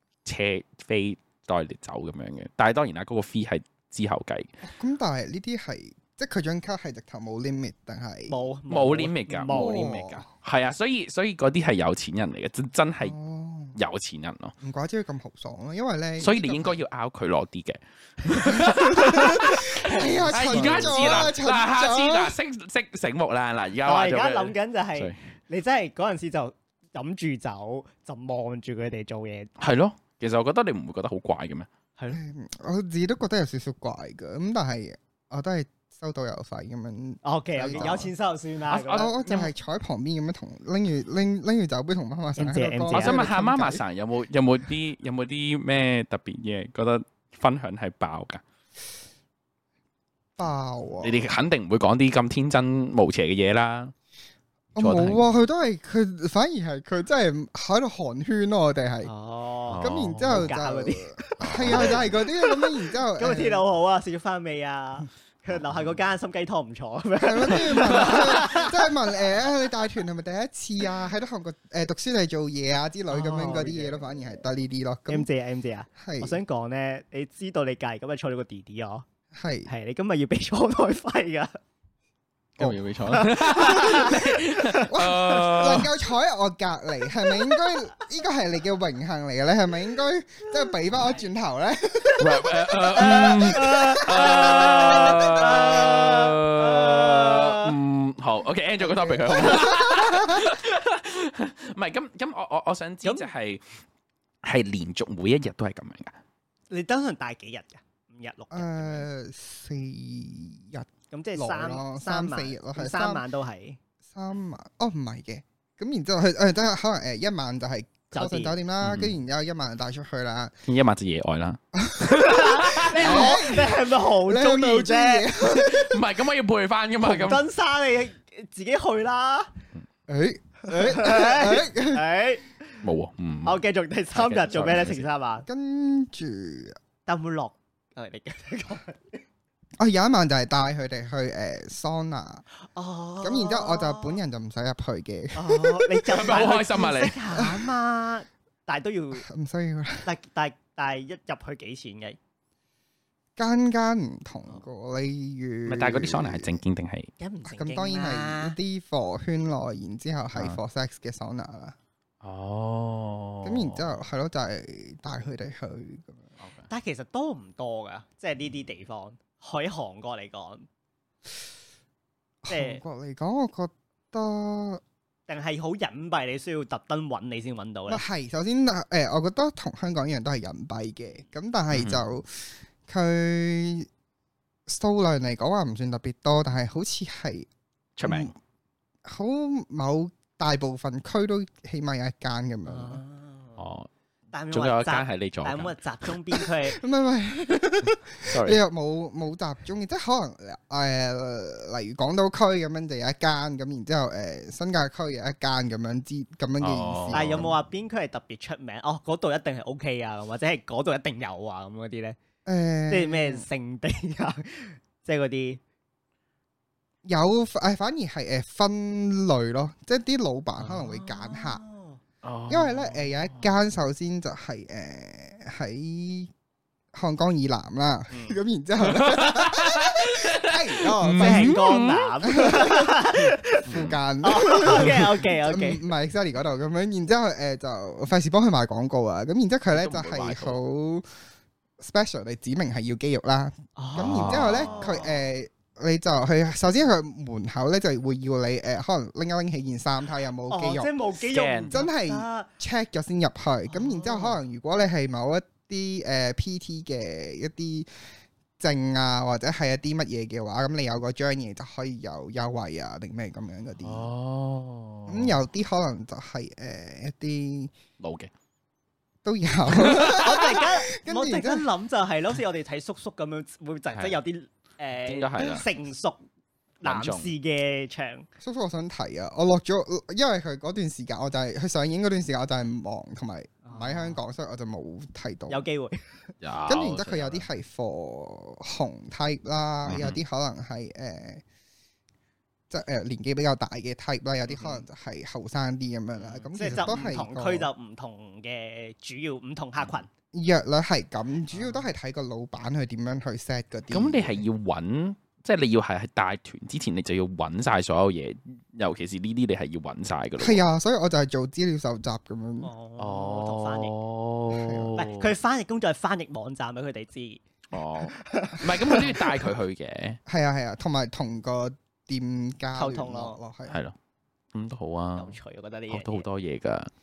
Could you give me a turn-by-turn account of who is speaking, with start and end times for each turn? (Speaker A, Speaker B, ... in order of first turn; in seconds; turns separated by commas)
Speaker A: 0.2-4.5, Speaker B: 4.6-8.3, Speaker C: 8.3-9.9, Speaker A: 8.7-13.1, Speaker B: 9.5-10.2, Speaker B: 13.0-13.8, Speaker A: 13.7-14.5, Speaker B: 14.6-16.8, Speaker A: 16.2-25.2, Speaker B: 18.4-22.3, Speaker C: 20.2-21.1, Speaker C: 23.8-29.5, Speaker A: 29.6-31.7, Speaker B: 32.1-38.1, Speaker C: 37.2-39.4, Speaker A: 37.7-38.0, Speaker A: 38.7-39.3, Speaker B: 38.9-43.8, Speaker C: 42.4-43.2, Speaker A: 42.9-48.4, Speaker B: 50.4-51.2, Speaker A: 51.0-53.9, Speaker B: 54.7-59.1, Speaker A: 54.8-55.2, Speaker C: 59.0-68.9, Speaker A: 59.7-60.5, Speaker B: 59.8-63.6, Speaker A: 61.4-62.1, Speaker B: 67.2-75.3, Speaker C: 73.1-74.0, Speaker C: 75.1-79.0, Speaker B: 76.0-76.4, Speaker B: 79.3-79.7, Speaker C: 79.7-81.6, Speaker A: 82.6-85.9, Speaker C: 83.1-84.9, Speaker B: 83.8-84.1, Speaker B: 84.9-95.6, Speaker A: 92.2-103.6, Speaker C: 93.0-97.8, Speaker C: 99.0-99.4, Speaker B: 99.1-100.4, Speaker C: 103.0-103.3, Speaker A: 104.4-106.2, Speaker C: 106.7-109.1, Speaker B: 108.5-113.2, Speaker C: 111.1-113.8, Speaker B: 114.1-120.5, Speaker C: 118.1-118.6, Speaker A: 118.8-119.1, Speaker A: 120.7-123.4, Speaker B: 121.7-122.2, Speaker C: 122.1-125.3, Speaker B: 122.9-126.0, Speaker A: 125.4-127.4, Speaker C: 127.0-129.5, Speaker B: 130.1-132.0, Speaker C: 130.7-132.8, Speaker A: 132.8-133.6, Speaker C: 133.4-135.4, Speaker A: 134.1-135.1, Speaker B: 135.4-136.8, Speaker C: 137.1-139.2, Speaker B: 139.8-142.4, Speaker C: 142.6-144.2, Speaker B: 143.2-146.0, Speaker C: 145.3-149.2, Speaker A: 146.1-147.2, Speaker B: 147.3-147.7, Speaker B: 149.2-150.1, Speaker C: 150.0-152.2, Speaker B: 153.4-156.6, Speaker A: 155.7-157.1, Speaker C: 157.2-158.6, Speaker B: 157.4-161.7, Speaker A: 162.2-163.9, Speaker B: 163.4-166.2, Speaker A: 166.4-166.7, Speaker C: 166.7-170.7, Speaker B: 172.4-174.8, Speaker C: 172.5-172.8, Speaker C: 175.3-178.0, Speaker B: 177.9-183.9, Speaker A: 181.7-182.0, Speaker B: 184.7-187.5, Speaker A: 188.0-188.3, Speaker B: 188.1-188.3, Speaker B: 189.0-193.0, Speaker C: 192.7-193.6, Speaker A: 193.6-193.9, Speaker C: 194.3-196.8, Speaker A: 194.5-195.8, Speaker B: 196.6-207.5, Speaker A: 198.2-198.6, Speaker A: 206.6-207.5, Speaker C: 207.1-212.2, Speaker B: 212.4-213.4, Speaker C: 212.9-215.6, Speaker B: 217.0-221.6, Speaker C: 220.7-222.0, Speaker A: 222.2-223.5, Speaker B: 222.5-226.3, Speaker B: 226.9-231.6, Speaker A: 228.8-232.1, Speaker C: 231.2-235.8, Speaker B: 232.2-233.0, Speaker A: 233.7-234.0, Speaker B: 233.7-241.1, Speaker A: 239.7-240.6, Speaker B: 241.8-250.9, Speaker C: 243.8-245.1, Speaker A: 244.0-245.0, Speaker C: 250.5-252.5, Speaker A: 251.3-251.7, Speaker B: 251.7-257.9, Speaker C: 253.7-254.4, Speaker B: 258.6-264.1, Speaker A: 263.8-265.4, Speaker B: 265.1-267.7, Speaker A: 268.0-268.3, Speaker B: 269.2-271.6, Speaker A: 269.8-270.4, Speaker C: 269.9-276.2, Speaker A: 275.1-275.6, Speaker C: 276.8-278.3, Speaker A: 276.8-277.3, Speaker B: 278.4-285.7, Speaker C: 283.6-284.2, Speaker C: 285.5-286.0, Speaker A: 286.4-287.4, Speaker B: 286.6-291.4, Speaker A: 289.9-290.2, Speaker B: 292.7-297.7, Speaker A: 296.1-297.0, Speaker C: 296.5-300.1, Speaker B: 300.3-304.4, Speaker C: 301.5-301.9, Speaker A: 303.9-310.6, Speaker B: 310.4-312.7, Speaker C: 312.6-313.9, Speaker A: 313.0-315.3, Speaker B: 314.5-315.0, Speaker C: 315.0-317.4, Speaker A: 317.7-320.2, Speaker C: 318.1-319.2, Speaker B: 320.3-323.8, Speaker C: 322.7-323.4, Speaker A: 323.7-323.9, Speaker A: 324.5-325.4, Speaker C: 325.1-326.2, Speaker A: 325.9-326.9